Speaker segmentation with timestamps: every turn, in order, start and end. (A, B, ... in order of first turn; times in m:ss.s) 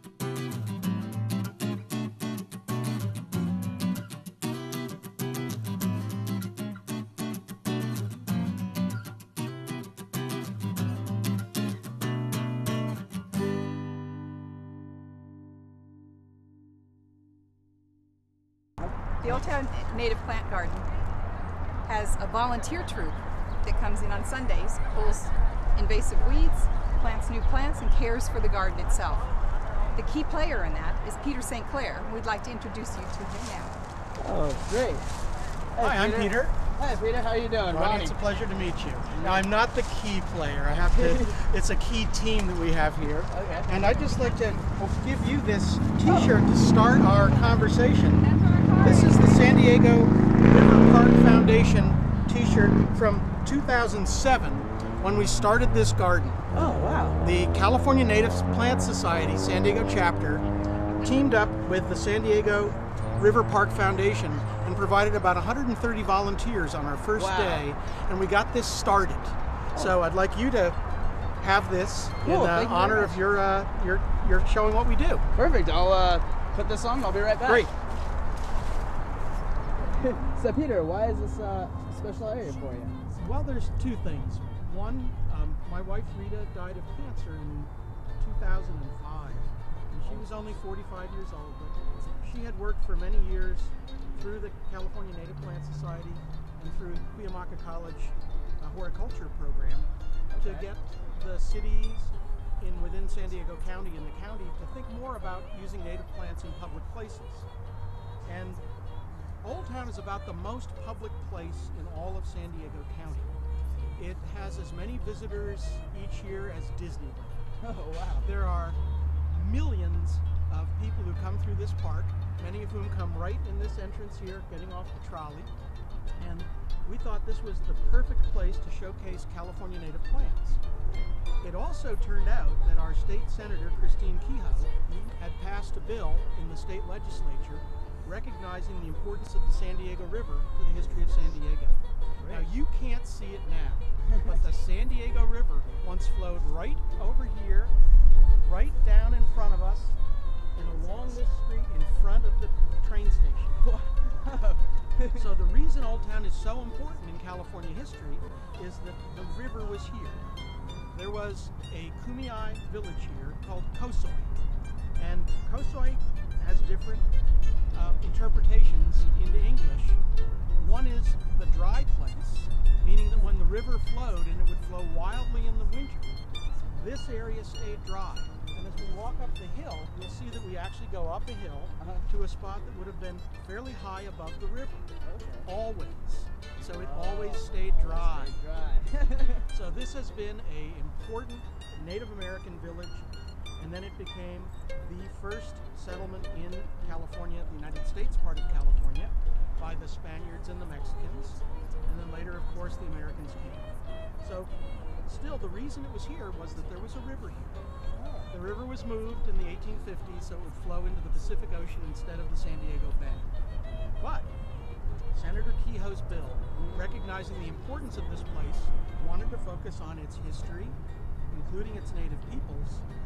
0:19.2-0:20.9 A
0:21.8-0:29.3 A
0:29.9-0:33.8 A
0:34.2-0:35.1 B
0:35.7-0:38.2 B
0:35.8-0:36.5 C
0:37.7-0:48.2 C
0:39.1-0:39.4 B
0:40.9-0:41.4 B
0:43.3-0:44.0 B
0:43.4-0:44.1 A
0:46.0-0:46.4 B
0:47.3-0:49.7 A
0:48.8-0:56.4 C
0:56.5-0:57.2 B
0:57.2-1:00.4 C
1:01.0-1:10.8 C
1:07.2-1:07.7 B
1:11.4-1:15.2 C
1:12.2-1:13.2 B
1:15.3-1:17.7 B
1:17.4-1:17.7 C
1:19.8-1:23.0 B
1:23.2-1:47.5 C
1:29.9-1:30.3 B
1:40.3-1:40.7 B
1:48.2-1:48.6 C
1:49.3-1:53.4 C
1:54.0-1:57.5 C
1:57.6-1:58.3 B
1:58.2-1:58.8 C
1:59.3-2:05.5 C
2:06.2-2:10.6 C
2:10.5-2:11.1 B
2:11.4-2:27.8 C
2:22.2-2:22.5 B
2:28.4-2:30.0 C
2:30.5-2:33.6 C
2:33.6-2:35.4 B
2:35.1-2:40.2 C
2:40.9-2:44.3 C
2:45.0-2:47.1 C
2:47.7-2:50.0 C
2:50.6-2:56.2 C
2:56.7-3:04.9 C
3:01.8-3:02.0 B
3:05.0-3:05.5 B
3:05.4-3:08.3 C
3:06.6-3:09.4 B
3:09.5-3:13.1 C
3:13.6-3:24.5 C
3:25.0-3:27.6 C
3:27.9-3:28.3 B
3:28.3-3:33.3 C
3:34.0-3:34.3 C
3:35.1-3:40.8 C
3:36.6-3:36.8 B
3:41.3-3:42.8 C